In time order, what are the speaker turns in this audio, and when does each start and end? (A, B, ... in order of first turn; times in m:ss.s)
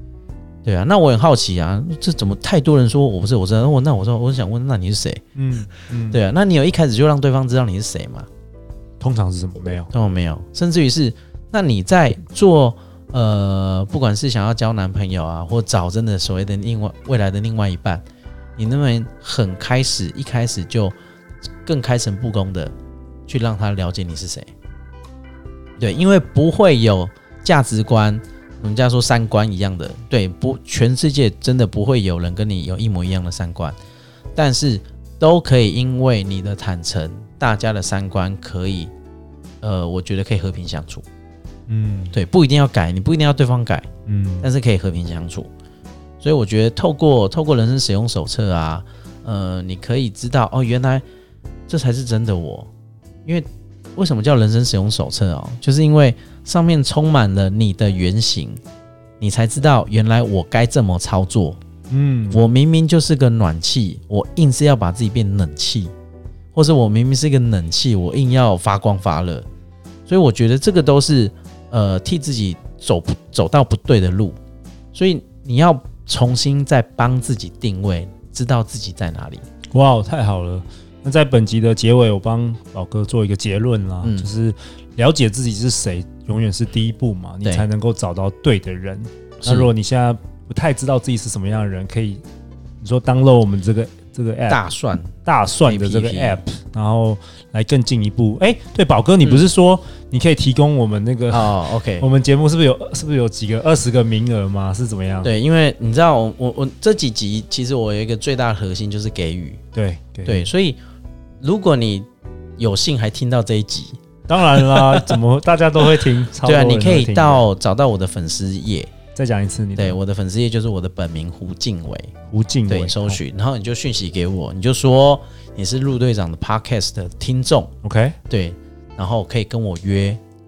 0:00.6-0:05.2 A
0:05.4-0:06.2 B
0:06.1-0:08.3 A
0:09.0-0:09.9 B
0:09.9-0:18.0 A
0:18.6-0:21.0 A
0:21.7-0:22.7 A
0:23.3-0:24.5 A
0:25.8-0:33.8 A
0:34.4-0:38.9 A
0:39.6-0:41.0 A
0:41.7-0:42.2 B
0:42.1-0:43.9 A
0:44.1-0:44.5 B
0:44.4-0:45.5 A
0:46.2-0:51.0 A
0:51.7-0:52.7 A
0:53.2-0:58.6 A
0:59.2-1:01.6 A
1:01.9-1:02.4 B
1:02.3-1:05.9 A
1:06.6-1:09.5 A
1:10.1-1:14.4 A
1:15.0-1:19.4 A
1:19.7-1:32.2 B
1:24.0-1:24.3 A
1:29.4-1:29.7 A
1:32.8-1:34.6 B
1:34.5-1:36.4 A
1:35.2-1:45.3 B
1:39.2-1:39.5 A
1:41.3-1:42.1 A
1:45.2-1:49.6 A
1:49.7-1:50.5 B
1:50.3-1:50.8 A
1:51.4-1:54.0 A
1:54.3-1:57.4 B
1:54.5-1:55.2 A
1:56.4-1:58.9 A
1:59.2-2:00.0 B
1:59.8-2:02.1 A
2:02.3-2:03.2 B
2:02.7-2:07.7 A
2:07.8-2:08.2 B
2:08.3-2:10.2 A